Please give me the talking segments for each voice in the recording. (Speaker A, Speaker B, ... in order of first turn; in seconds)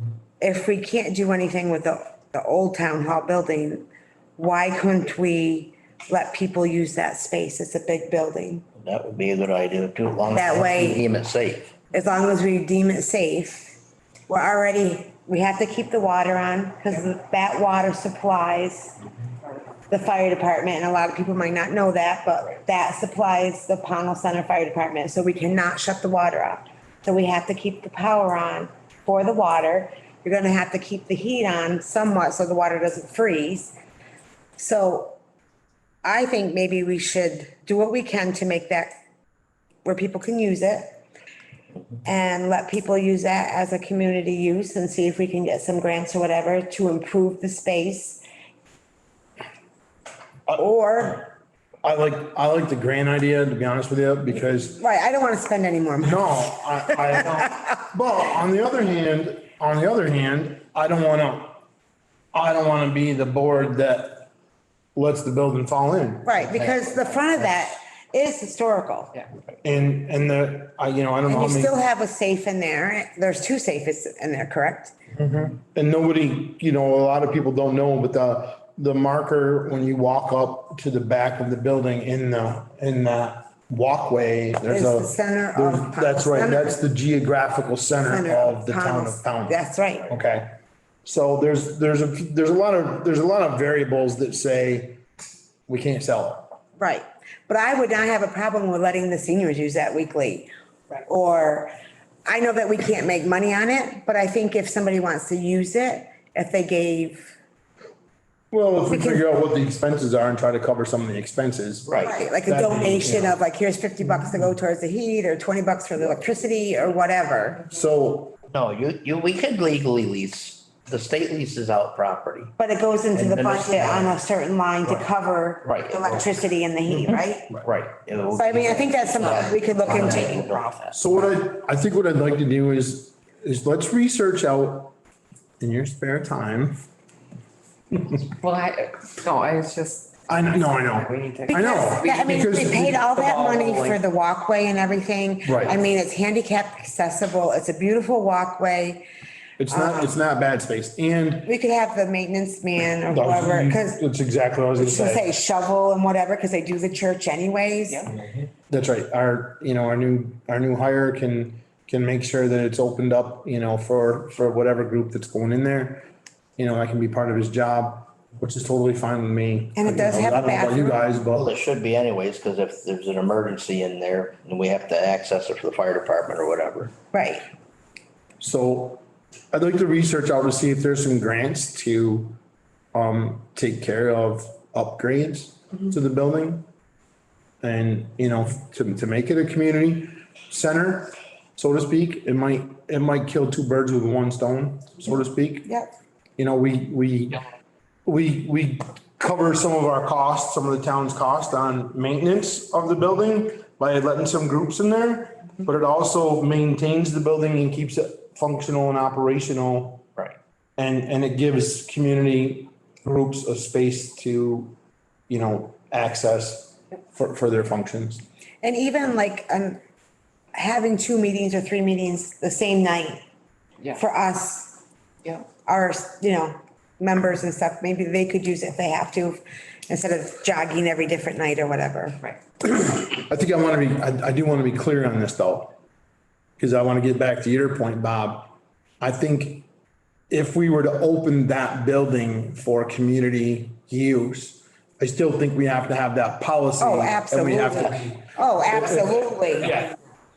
Speaker A: 0.4-3.9, 4.4-8.6, 10.3-11.1, 11.9-18.9, 19.9-33.8, 34.6-35.2, 36.0-39.0, 39.9-41.0, 42.0-48.2, 50.5-51.3, 54.8-57.2, 66.2-69.2, 71.3-75.0, 84.7-86.8, 88.1-90.1, 96.8-101.7, 102.3-107.3, 108.9-109.2, 112.0-117.7, 122.6-127.6, 128.3-130.5, 141.5-149.1, 149.7-150.2, 151.4-154.0, 154.8-158.1, 169.8-171.0, 177.1-177.5, 195.7-195.9, 218.6-219.8, 220.5-223.2, 223.9-224.8, 225.6-232.2, 246.8-249.8
Speaker B: 8.8-11.8, 111.9-112.2, 118.5-122.5, 123.1-124.2, 125.7-126.2, 127.7-130.9, 171.3-176.9
Speaker C: 51.8-54.8, 56.0-61.6, 62.3-64.3, 65.0-66.8, 69.6-71.8, 75.2-95.0, 95.7-96.5, 108.5-113.4, 117.7-118.3, 130.9-134.9, 135.6-136.8, 140.3-143.0, 145.4-145.8, 149.6-151.5, 153.1-155.3, 158.7-171.5, 178.4-182.4, 182.9-186.7, 187.6-195.7, 196.4-197.4, 198.1-210.1, 210.8-214.8, 215.3-218.2, 232.6-235.8, 236.6-239.7, 240.3-249.9
Speaker D: 129.2-131.0, 138.2-144.0